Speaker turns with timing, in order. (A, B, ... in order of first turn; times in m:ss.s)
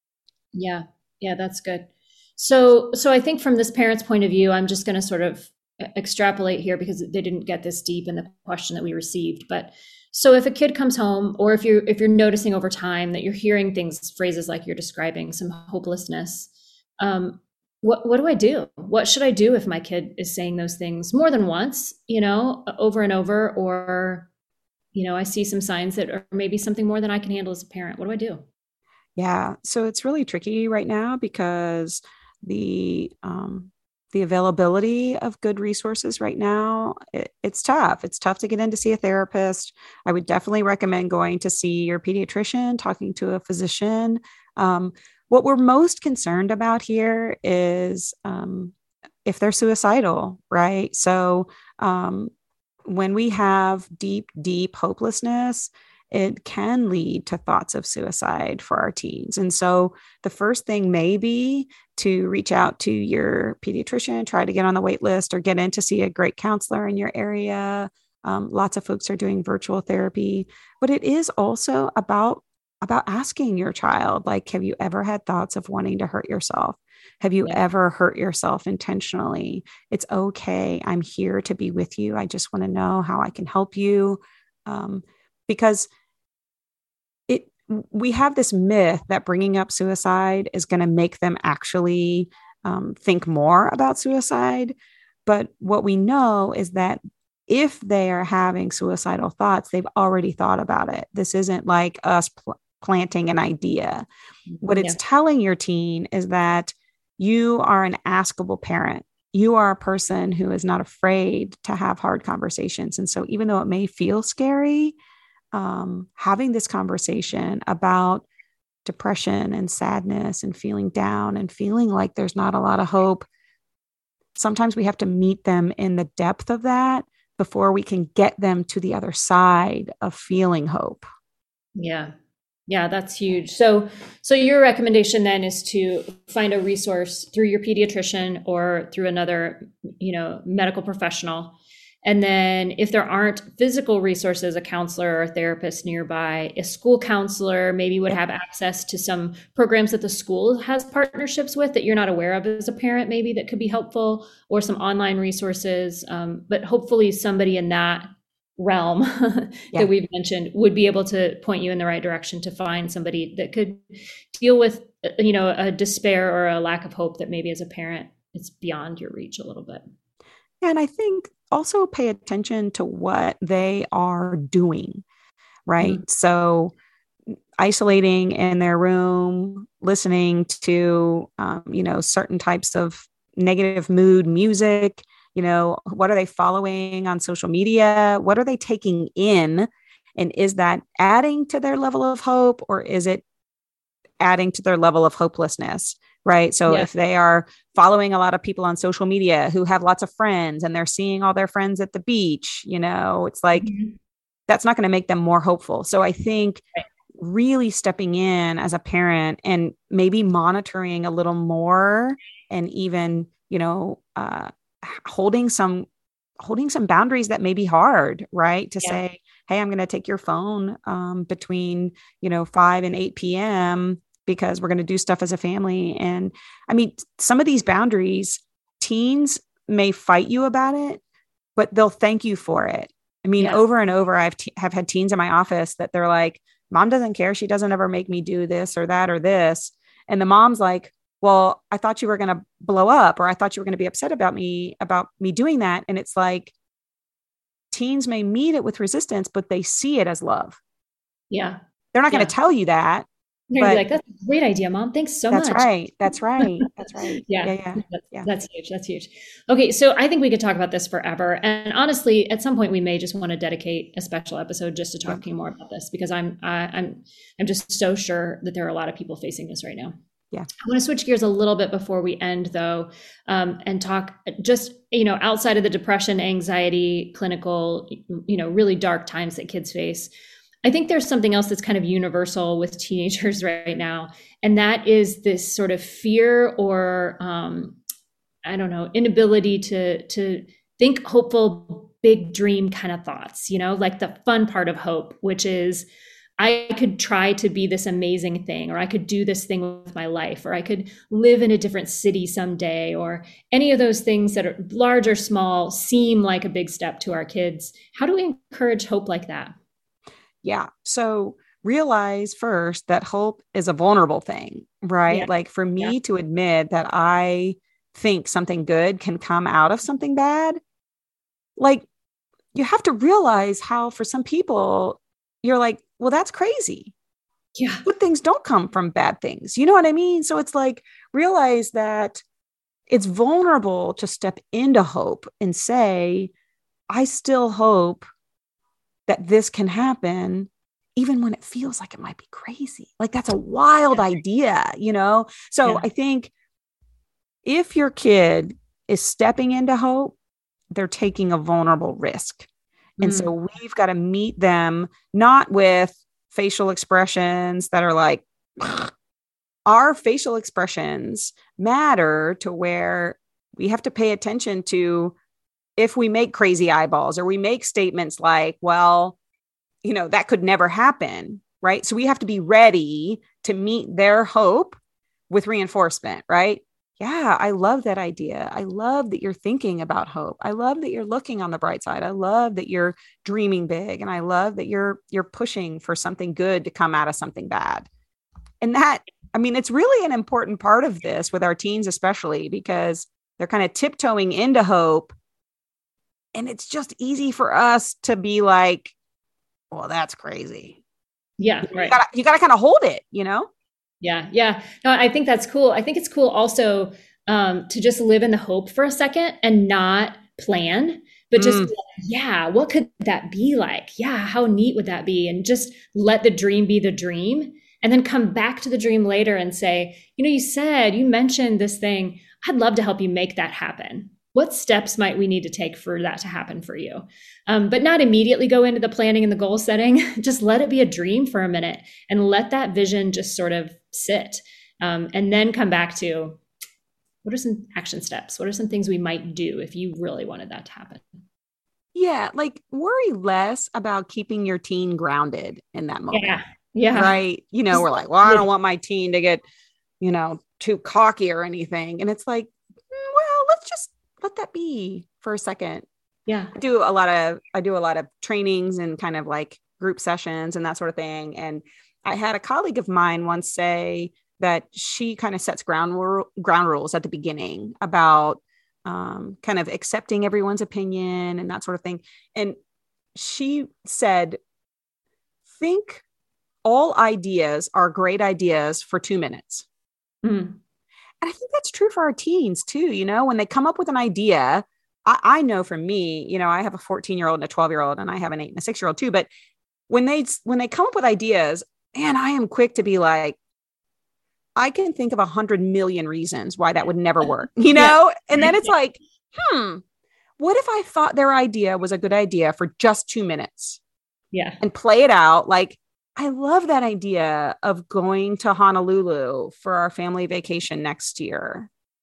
0:00.5-0:24.3 A
0:24.9-0:28.4 A
0:29.2-0:52.3 B
0:52.8-1:25.9 B
1:27.3-1:34.7 B
1:35.2-1:44.1 B
1:44.5-1:45.0 A
1:44.6-1:55.0 B
1:55.5-1:58.2 B
1:58.8-2:03.2 B
2:04.4-2:11.0 B
2:11.8-2:12.1 A
2:12.7-2:49.8 A
2:50.6-2:55.0 B
2:55.7-2:56.7 B
2:57.6-3:13.2 B
3:14.2-3:23.7 B
3:23.5-3:23.9 A
3:24.5-3:26.6 B
3:27.2-3:35.9 B
3:36.4-3:51.0 B
3:51.6-4:06.5 B
4:07.7-4:10.6 B
4:11.3-4:12.3 A
4:11.9-4:13.1 B
4:13.5-4:15.7 A
4:13.6-4:13.8 B
4:15.3-4:18.3 B
4:16.4-4:29.9 A
4:30.6-4:40.1 A
4:40.6-4:47.8 A
4:48.4-4:55.9 A
4:56.4-5:09.5 A
5:10.4-5:20.6 B
5:15.1-5:15.9 A
5:21.6-5:21.8 B
5:22.5-5:26.9 B
5:27.6-5:27.8 A
5:27.8-5:32.2 B
5:32.9-5:36.3 B
5:36.9-5:38.1 B
5:39.1-5:46.3 B
5:47.4-5:50.2 B
5:50.7-5:52.5 B
5:53.0-5:53.3 A
5:53.0-5:58.9 B
5:59.7-6:05.1 B
6:05.8-6:09.2 B
6:09.8-6:14.8 B
6:15.3-6:27.9 B
6:28.6-6:35.1 B
6:36.3-6:38.9 B
6:39.7-6:40.8 B
6:41.4-6:42.0 A
6:41.6-6:43.5 B
6:44.0-7:16.4 A
6:51.4-6:51.7 B
7:17.2-7:21.2 A
7:21.9-7:26.4 B
7:26.1-7:27.2 A
7:26.9-7:29.4 B
7:27.7-7:28.5 A
7:30.0-7:35.9 B
7:36.3-7:36.5 A
7:36.6-7:52.6 B
7:53.1-7:54.4 B
7:55.5-7:56.0 B
7:56.6-7:59.6 B
8:00.2-8:00.6 A
8:01.2-8:09.3 B
8:09.9-8:13.4 B
8:14.6-8:19.8 B
8:17.7-8:18.7 A
8:20.4-8:23.8 B
8:24.3-8:24.6 A
8:24.6-8:31.7 B